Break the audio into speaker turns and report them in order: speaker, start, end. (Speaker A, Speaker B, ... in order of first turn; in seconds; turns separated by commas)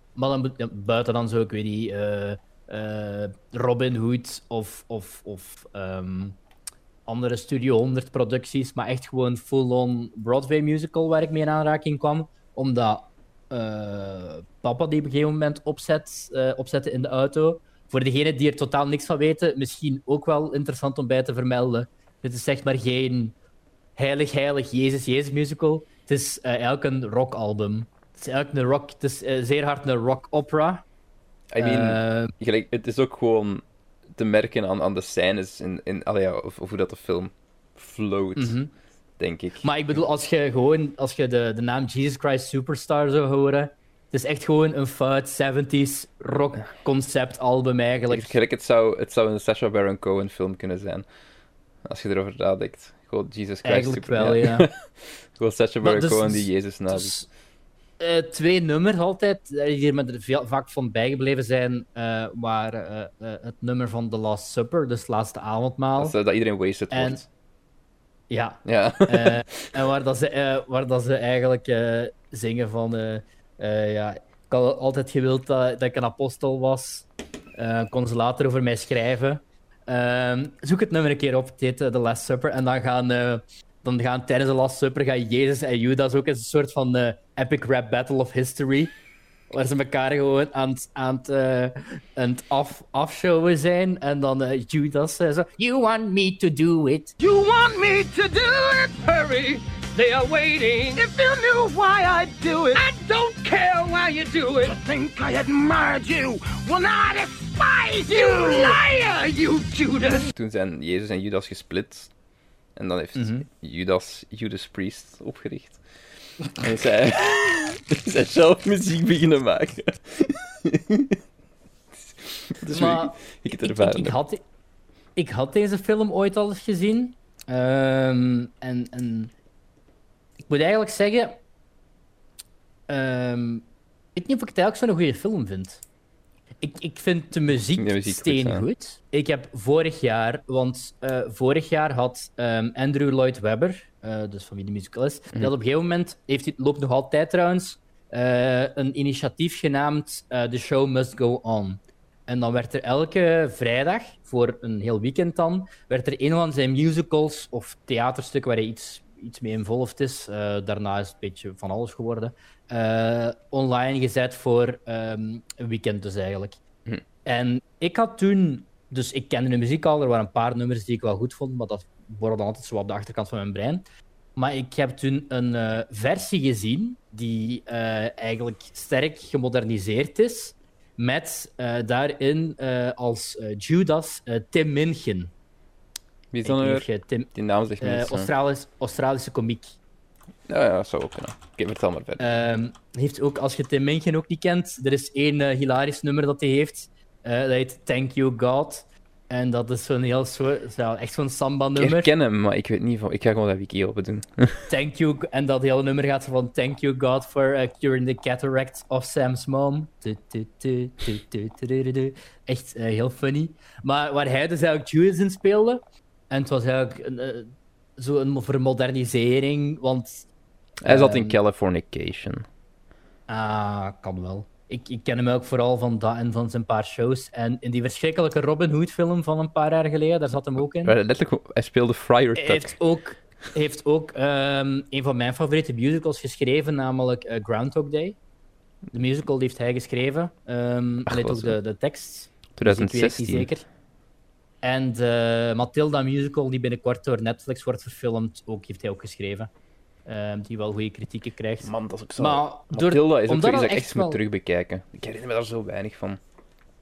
Speaker A: 0.1-6.4, Speaker A: 7.1-23.4, Speaker A: 23.9-30.8, Speaker B: 31.5-33.6, Speaker A: 31.6-32.3, Speaker B: 34.1-38.6, Speaker A: 38.4-38.7, Speaker B: 39.2-39.7, Speaker A: 39.6-48.3, Speaker B: 48.1-51.1, Speaker B: 51.8-57.1, Speaker A: 53.6-54.7, Speaker A: 55.8-57.3, Speaker A: 58.0-66.2, Speaker B: 66.0-67.2, Speaker A: 66.9-67.2, Speaker A: 68.3-88.9, Speaker B: 68.6-69.6, Speaker A: 89.5-97.1, Speaker C: 97.2-110.3, Speaker B: 110.3-112.1, Speaker B: 112.8-115.8, Speaker A: 113.1-113.5, Speaker B: 116.5-121.2, Speaker B: 121.9-124.2, Speaker A: 122.7-124.4, Speaker A: 125.2-129.3, Speaker A: 130.5-131.4, Speaker A: 132.9-133.6, Speaker A: 134.1-135.8, Speaker A: 136.6-166.6, Speaker B: 137.8-138.7, Speaker A: 167.2-173.8, Speaker A: 174.3-185.3, Speaker B: 186.3-188.3, Speaker A: 186.4-187.3, Speaker A: 187.8-189.7, Speaker B: 190.5-192.2, Speaker A: 192.2-202.1, Speaker B: 201.8-204.6, Speaker A: 204.7-220.3, Speaker B: 220.8-222.5, Speaker A: 220.8-221.4, Speaker A: 223.3-230.9, Speaker B: 230.8-232.8, Speaker A: 232.3-238.2, Speaker A: 238.9-243.7, Speaker B: 241.1-241.6, Speaker B: 242.6-243.5, Speaker A: 244.6-249.5, Speaker A: 250.1-254.2, Speaker B: 251.6-256.2